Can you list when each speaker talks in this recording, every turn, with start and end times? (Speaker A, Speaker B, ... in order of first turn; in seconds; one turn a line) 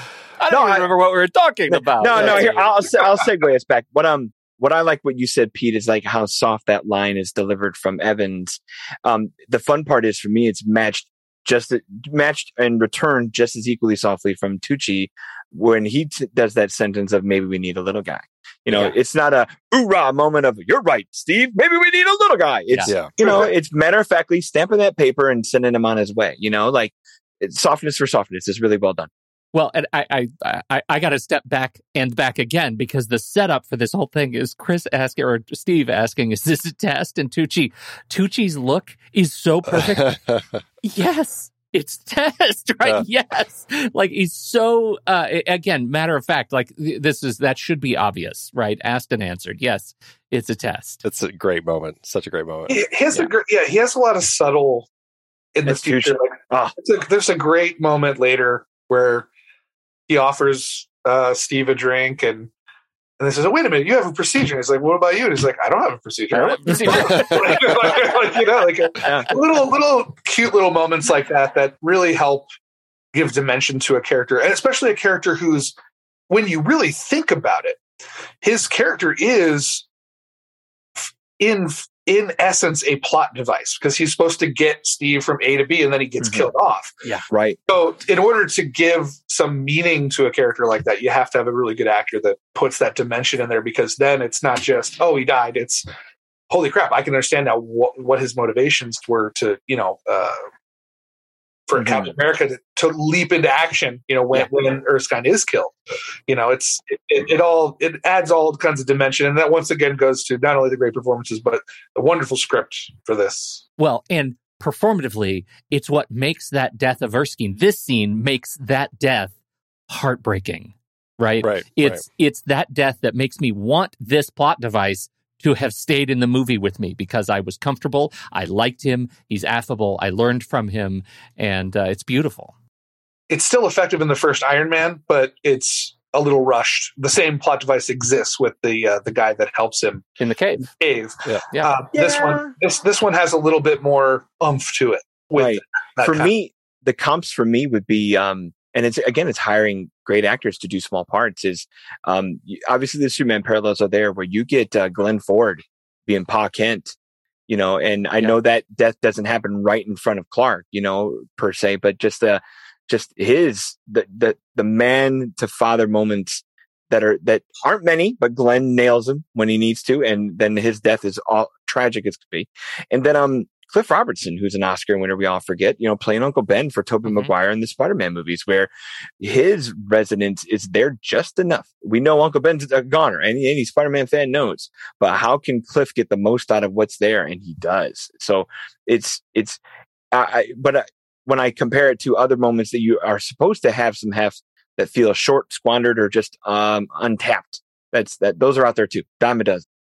Speaker A: 0.4-2.8
Speaker B: 0.5-0.9
Speaker B: 1.7-29.1
Speaker C: 2.1-2.4
Speaker C: 23.2-23.5
Speaker A: 29.5-40.2
Speaker D: 39.9-40.4
Speaker A: 40.8-51.0
Speaker D: 51.0-52.8
Speaker C: 52.7-54.9
Speaker C: 55.5-59.3
Speaker B: 55.7-56.7
Speaker C: 60.1-62.5
Speaker C: 63.2-72.5
Speaker A: 66.3-68.1
Speaker B: 66.7-67.2
Speaker B: 69.0-69.3
Speaker C: 73.1-75.7
Speaker C: 76.3-77.8
Speaker C: 78.4-79.8
Speaker C: 81.4-87.0
Speaker B: 86.2-86.5
Speaker B: 87.3-87.6
Speaker C: 87.7-95.8
Speaker C: 96.5-100.5
Speaker C: 101.7-105.7
Speaker B: 101.8-102.1
Speaker C: 106.3-113.6
Speaker A: 113.8-119.3
Speaker A: 119.9-132.5
Speaker D: 121.4-122.0
Speaker C: 133.3-140.0
Speaker A: 140.2-140.7
Speaker C: 140.8-146.3
Speaker A: 141.5-141.8
Speaker B: 141.9-142.5
Speaker B: 145.3-156.9
Speaker B: 157.5-189.6
Speaker B: 190.1-199.6